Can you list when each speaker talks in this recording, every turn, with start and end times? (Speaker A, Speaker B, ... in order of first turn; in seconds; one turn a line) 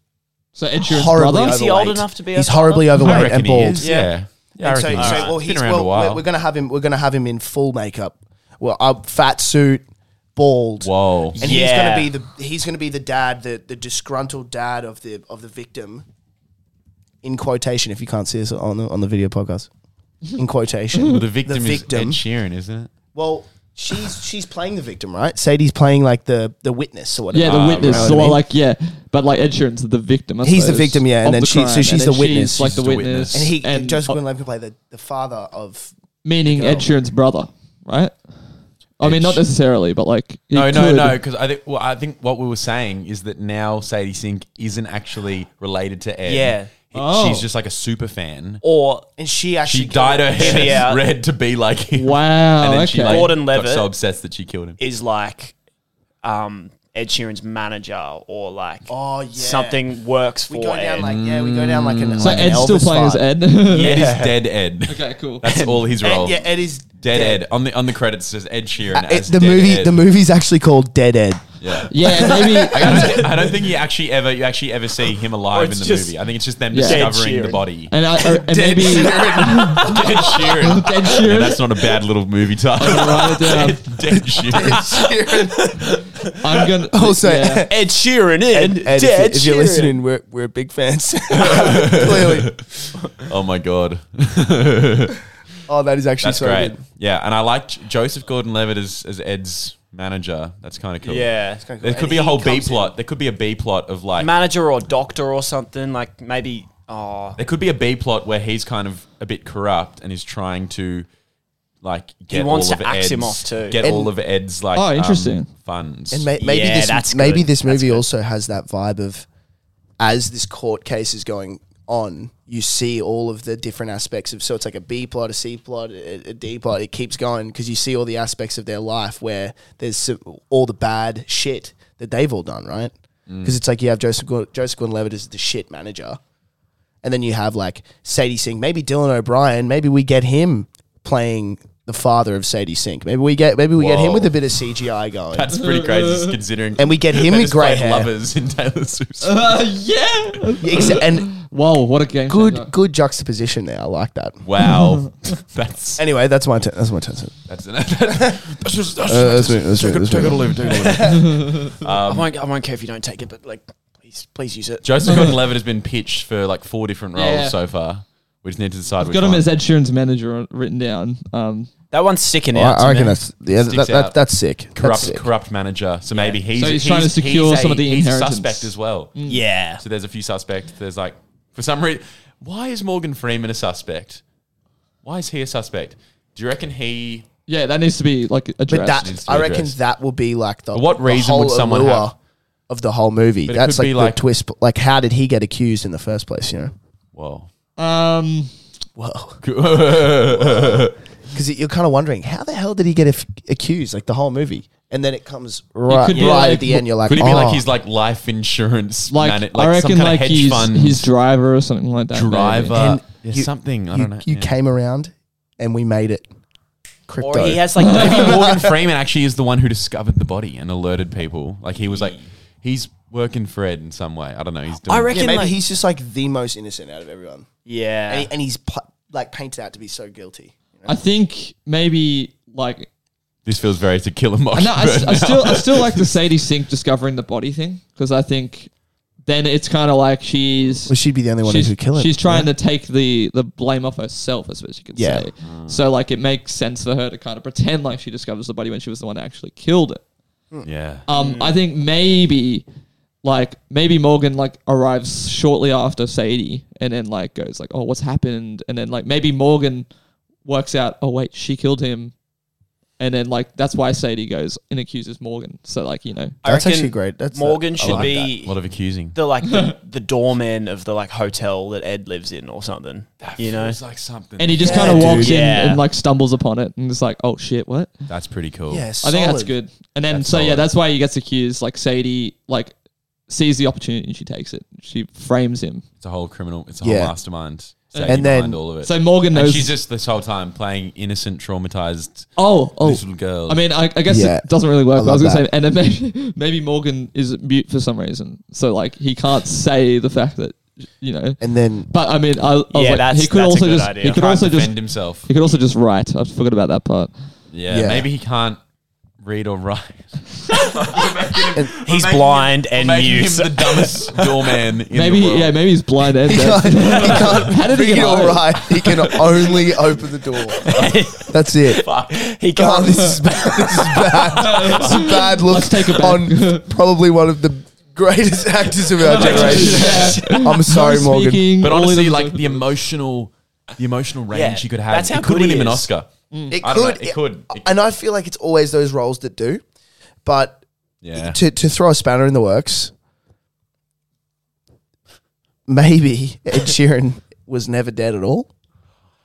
Speaker A: 0.5-1.6
Speaker B: 0.8-3.9
Speaker C: 1.4-3.0
Speaker D: 3.0-6.2
Speaker C: 3.8-4.1
Speaker B: 4.6-9.8
Speaker C: 4.9-5.4
Speaker B: 10.3-16.1
Speaker D: 10.8-11.5
Speaker C: 11.4-12.1
Speaker B: 17.2-19.7
Speaker B: 20.4-22.2
Speaker D: 21.0-22.9
Speaker B: 23.1-28.4
Speaker A: 27.3-34.2
Speaker D: 27.4-28.3
Speaker B: 30.4-32.7
Speaker D: 32.6-33.5
Speaker B: 33.3-35.9
Speaker A: 36.2-38.2
Speaker B: 36.5-36.9
Speaker A: 39.0-41.1
Speaker D: 39.0-39.4
Speaker D: 40.5-48.6
Speaker C: 46.2-46.7
Speaker A: 46.9-47.5
Speaker C: 48.6-49.1
Speaker B: 49.2-50.9
Speaker D: 49.6-54.8
Speaker C: 50.3-51.0
Speaker A: 51.9-53.3
Speaker C: 53.0-53.9
Speaker C: 54.8-55.5
Speaker C: 56.2-61.1
Speaker B: 58.9-59.8
Speaker B: 60.5-64.3
Speaker D: 61.0-62.5
Speaker A: 62.2-63.9
Speaker D: 63.7-66.4
Speaker C: 63.7-64.2
Speaker A: 64.9-65.5
Speaker B: 65.5-67.4
Speaker D: 67.0-70.0
Speaker B: 68.9-73.5
Speaker D: 71.6-77.9
Speaker A: 71.9-73.2
Speaker C: 75.5-76.2
Speaker A: 76.7-77.1
Speaker C: 76.8-77.6
Speaker A: 77.9-80.0
Speaker B: 78.3-80.7
Speaker D: 79.7-84.9
Speaker A: 80.6-81.6
Speaker A: 82.8-83.9
Speaker B: 84.5-85.9
Speaker C: 84.5-86.7
Speaker A: 86.4-87.7
Speaker B: 86.9-87.7
Speaker C: 87.7-90.0
Speaker B: 88.5-93.0
Speaker D: 91.4-95.2
Speaker B: 95.7-96.8
Speaker D: 96.2-104.3
Speaker C: 101.0-101.7
Speaker B: 101.6-102.9
Speaker C: 104.2-107.4
Speaker D: 107.4-111.1
Speaker D: 111.8-116.3
Speaker C: 112.3-114.1
Speaker B: 113.8-114.1
Speaker A: 114.7-115.5
Speaker B: 116.1-119.2
Speaker C: 116.4-118.0
Speaker B: 120.0-136.2
Speaker D: 133.3-133.6
Speaker B: 137.0-145.5
Speaker D: 143.8-144.4
Speaker D: 145.3-149.5
Speaker A: 145.5-146.3
Speaker B: 146.8-148.1
Speaker A: 149.2-152.7
Speaker B: 150.6-151.3
Speaker B: 152.3-154.4
Speaker D: 154.4-156.0
Speaker B: 156.0-157.4
Speaker D: 157.5-162.3
Speaker B: 158.1-158.4
Speaker B: 159.0-161.2
Speaker C: 160.7-161.2
Speaker A: 161.1-161.6
Speaker C: 161.8-165.3
Speaker D: 164.8-169.4
Speaker A: 165.0-165.3
Speaker A: 167.1-167.5
Speaker A: 169.0-171.7
Speaker C: 171.9-173.2
Speaker B: 172.5-175.3
Speaker D: 173.5-174.2
Speaker D: 174.7-179.2
Speaker C: 176.1-176.4
Speaker A: 176.5-179.4
Speaker C: 179.3-179.8
Speaker D: 179.8-184.2
Speaker D: 185.0-187.3
Speaker A: 187.5-189.1
Speaker B: 188.7-192.1
Speaker D: 189.0-189.8
Speaker D: 190.7-192.1
Speaker B: 192.7-196.7
Speaker D: 193.5-194.2
Speaker D: 197.1-197.5
Speaker A: 197.8-198.5
Speaker B: 198.9-199.4
Speaker D: 199.4-201.0
Speaker B: 200.3-207.7
Speaker A: 205.9-207.4
Speaker D: 206.1-206.5
Speaker D: 207.0-211.1
Speaker A: 209.1-212.8
Speaker D: 212.1-214.5
Speaker B: 212.7-216.2
Speaker B: 217.1-218.7
Speaker C: 217.2-218.7
Speaker A: 217.8-218.2
Speaker D: 217.9-225.1
Speaker C: 221.8-222.2
Speaker C: 224.8-225.6
Speaker B: 225.1-227.5
Speaker C: 227.7-228.3
Speaker B: 228.1-231.0
Speaker A: 230.8-232.9
Speaker D: 233.4-236.1
Speaker A: 234.5-238.7
Speaker A: 239.2-250.0
Speaker B: 240.9-242.5
Speaker B: 244.9-245.3
Speaker D: 245.4-245.8
Speaker D: 250.6-251.1
Speaker A: 251.1-252.6
Speaker C: 251.1-251.6
Speaker A: 253.2-259.9
Speaker A: 260.4-262.1
Speaker A: 263.0-266.3
Speaker B: 266.4-268.3
Speaker C: 266.4-268.6
Speaker D: 267.8-269.1
Speaker C: 269.1-273.8
Speaker D: 273.2-275.3
Speaker A: 274.4-277.9
Speaker B: 274.6-275.4
Speaker C: 274.7-275.8
Speaker D: 278.1-278.9
Speaker B: 278.7-279.5
Speaker A: 279.0-282.7
Speaker D: 280.1-280.7
Speaker A: 283.3-285.8
Speaker D: 286.0-293.6
Speaker B: 286.8-287.1
Speaker A: 287.9-288.3
Speaker B: 288.1-288.6
Speaker A: 288.8-289.7
Speaker A: 292.4-307.1
Speaker B: 294.1-295.4
Speaker B: 301.4-301.9
Speaker C: 302.7-304.2
Speaker D: 304.1-305.3
Speaker D: 307.5-308.6
Speaker B: 307.7-308.1
Speaker D: 309.2-315.6
Speaker C: 311.8-314.3
Speaker A: 314.9-318.6
Speaker B: 316.2-321.8
Speaker C: 320.6-324.7
Speaker D: 320.7-320.9
Speaker B: 322.5-331.4
Speaker A: 324.4-326.7
Speaker D: 329.0-330.2
Speaker A: 329.1-332.6
Speaker C: 329.2-329.9
Speaker D: 331.6-336.1
Speaker C: 334.3-335.9
Speaker A: 336.3-336.6
Speaker B: 336.5-339.6
Speaker D: 336.6-337.6
Speaker B: 340.2-340.6
Speaker D: 341.0-341.4
Speaker B: 341.1-342.9
Speaker B: 345.7-348.5